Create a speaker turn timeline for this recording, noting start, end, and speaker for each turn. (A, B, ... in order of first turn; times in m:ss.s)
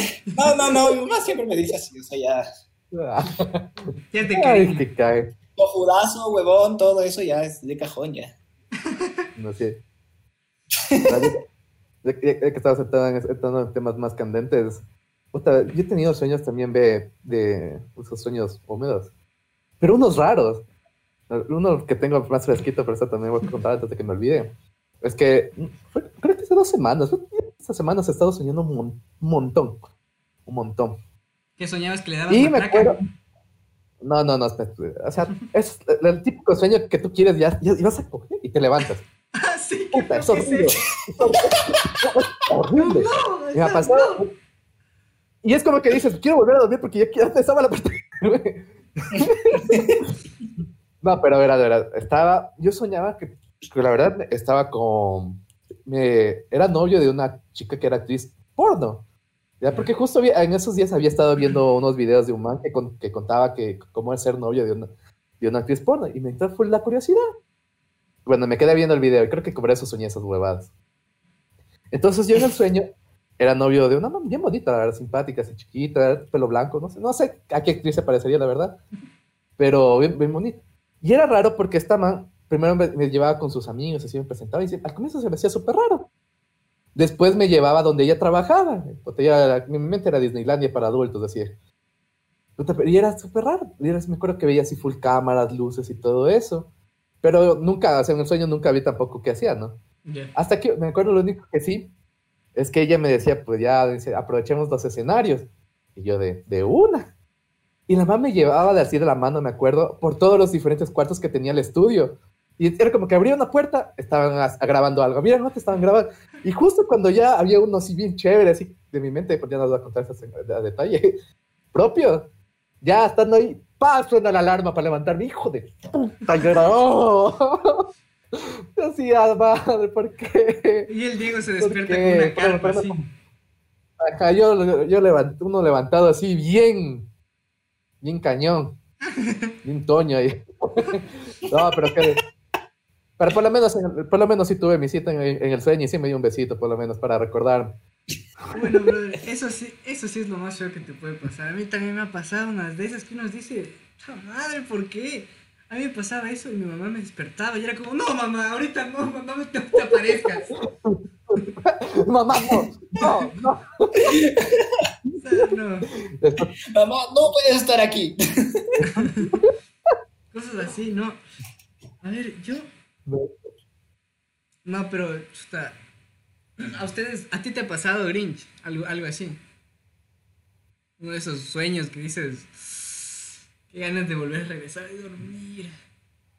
0:00.3-0:02.4 A
0:02.9-0:03.6 B
0:04.1-0:04.9 C
0:04.3-0:05.3 B
0:05.6-0:08.3 A
0:08.8-0:09.3 C
0:09.3-0:09.8 B
0:11.1-0:11.3 B
0:12.0-0:14.8 B
0:15.3-0:19.1 B
0:19.8-0:20.6 B
0:21.3-0:24.5 B
0:25.0-0:29.8 B
0:30.4-0:31.0 B
0:31.6-0:33.0 C
0:32.3-0:33.0 B
0:34.0-0:39.0 B
0:39.3-0:40.8 C
0:39.9-0:44.3 B
0:42.8-0:44.2 C
0:45.4-0:50.1 B
0:49.2-0:50.0 A
0:51.0-0:59.0 B
0:59.6-1:04.9 B
1:05.4-1:07.2 B
1:08.2-1:10.7 B
1:11.9-1:12.8 B
1:13.4-1:18.8 B
1:19.6-1:26.1 B
1:26.9-1:31.5 B
1:32.6-1:36.7 B
1:37.2-1:39.8 B
1:40.0-1:40.3 C
1:40.3-1:41.8 B
1:42.5-1:47.1 B
1:47.9-2:01.1 B
2:01.7-2:02.2 B
2:02.8-2:10.9 B
2:10.9-2:13.0 C
2:11.6-2:13.1 B
2:14.0-2:17.0 B
2:18.0-2:18.7 B
2:19.1-2:19.5 C
2:19.6-2:22.2 B
2:23.2-2:27.7 B
2:28.5-2:40.5 C
2:40.8-2:44.2 B
2:43.0-2:43.3 C
2:44.0-2:44.9 A
2:45.2-2:45.9 C
2:46.0-2:46.5 B
2:46.7-2:48.8 A
2:48.8-2:49.5 B
2:48.8-2:49.4 C
2:50.3-2:51.2 C
2:52.0-2:52.7 C
2:53.1-2:53.3 B
2:54.6-2:55.8 C
2:56.6-2:59.4 C
3:01.0-3:05.7 C